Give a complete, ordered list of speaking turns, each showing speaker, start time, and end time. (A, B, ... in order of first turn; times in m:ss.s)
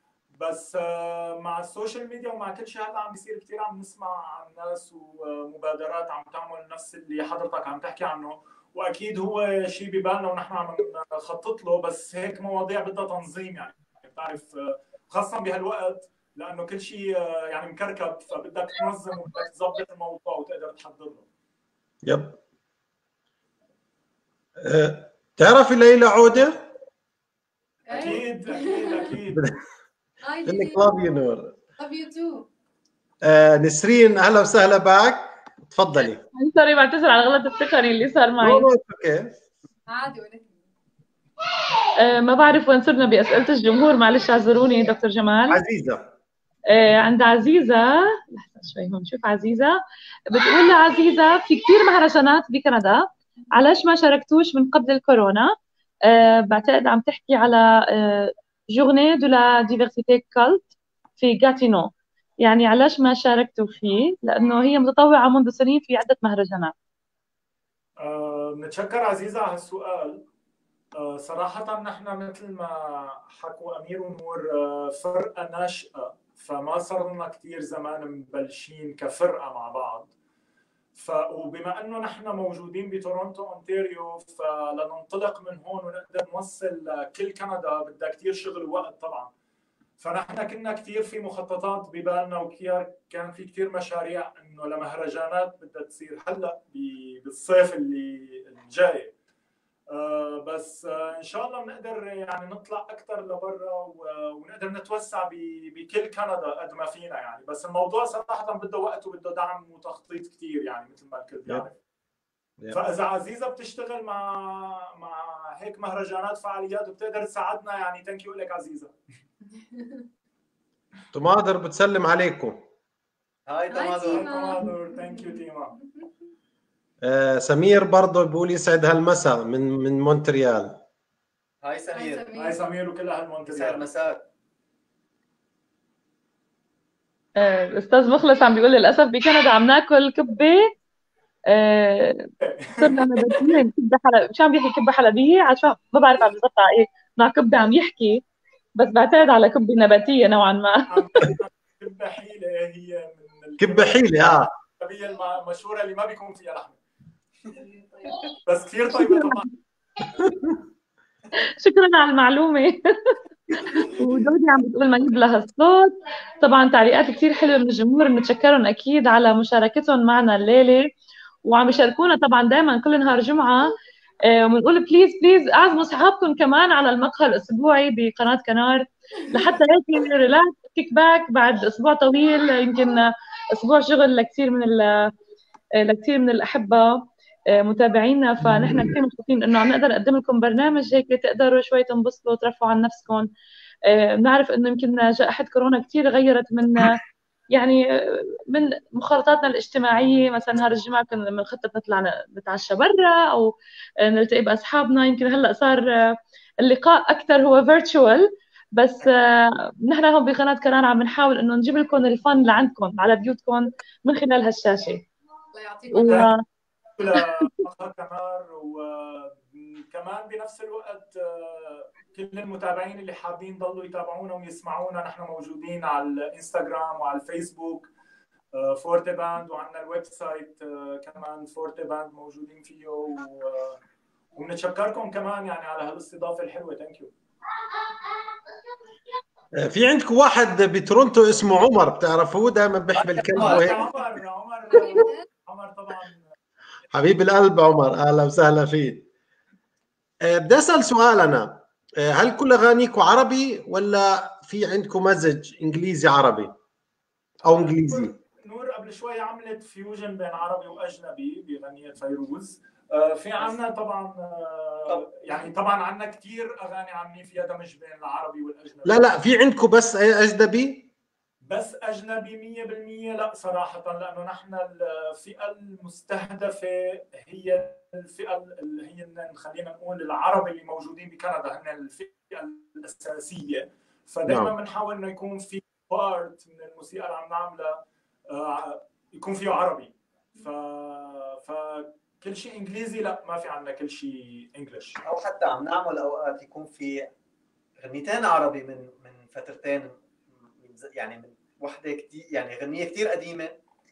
0:00.3-0:21.3 A
0:22.0-0:22.4 B
0:24.6-0:26.6 B
0:27.8-0:29.1 C
0:27.9-0:29.4 A
0:29.3-0:29.6 B
0:30.2-0:30.9 C
0:30.4-0:31.6 B
0:31.8-0:32.4 C
0:33.2-0:36.2 B
0:36.3-0:38.7 D
0:38.4-0:39.3 B
0:39.9-0:40.7 C
0:42.0-0:45.6 D
0:45.5-0:46.1 B
0:46.7-0:49.8 D
0:50.3-0:55.5 D
0:56.1-1:01.9 D
1:02.4-1:06.7 D
1:08.0-1:10.2 A
1:11.0-1:20.1 A
1:20.9-1:29.3 A
1:30.0-1:39.1 A
1:39.9-1:51.8 A
1:52.7-1:58.9 A
1:59.5-2:00.0 C
2:01.1-2:02.6 B
2:03.5-2:04.6 E
2:03.7-2:06.1 C
2:04.1-2:05.7 A
2:07.0-2:10.8 B
2:11.6-2:12.3 E
2:11.9-2:12.7 C
2:12.4-2:13.8 A
2:13.5-2:14.3 E
2:17.4-2:20.7 D
2:21.5-2:28.2 D
2:22.5-2:23.1 A
2:28.8-2:30.9 D
2:30.9-2:36.8 A
2:33.6-2:34.5 B
2:38.4-2:39.5 A
2:39.0-2:39.4 D
2:41.3-2:50.9 D
2:51.4-2:53.7 D
2:54.3-3:05.1 D
3:05.8-3:13.3 D
3:08.6-3:08.9 B
3:13.8-3:17.0 D
3:17.5-3:35.0 D
3:35.5-3:36.3 C
3:35.9-3:36.4 D
3:37.0-3:47.9 A
3:37.2-3:37.4 D
3:48.5-3:53.8 A
3:54.3-3:57.1 A
3:59.5-4:03.8 B
4:03.0-4:03.8 E
4:03.3-4:06.2 A
4:04.7-4:05.2 C
4:06.9-4:09.0 B
4:10.2-4:16.5 B
4:17.4-4:18.1 B
4:17.5-4:29.1 A
4:24.9-4:25.5 E
4:28.8-4:30.9 B
4:31.5-4:55.0 A
4:44.3-4:44.5 B
4:55.0-4:57.1 E
4:57.8-4:59.9 E
5:00.5-5:03.5 E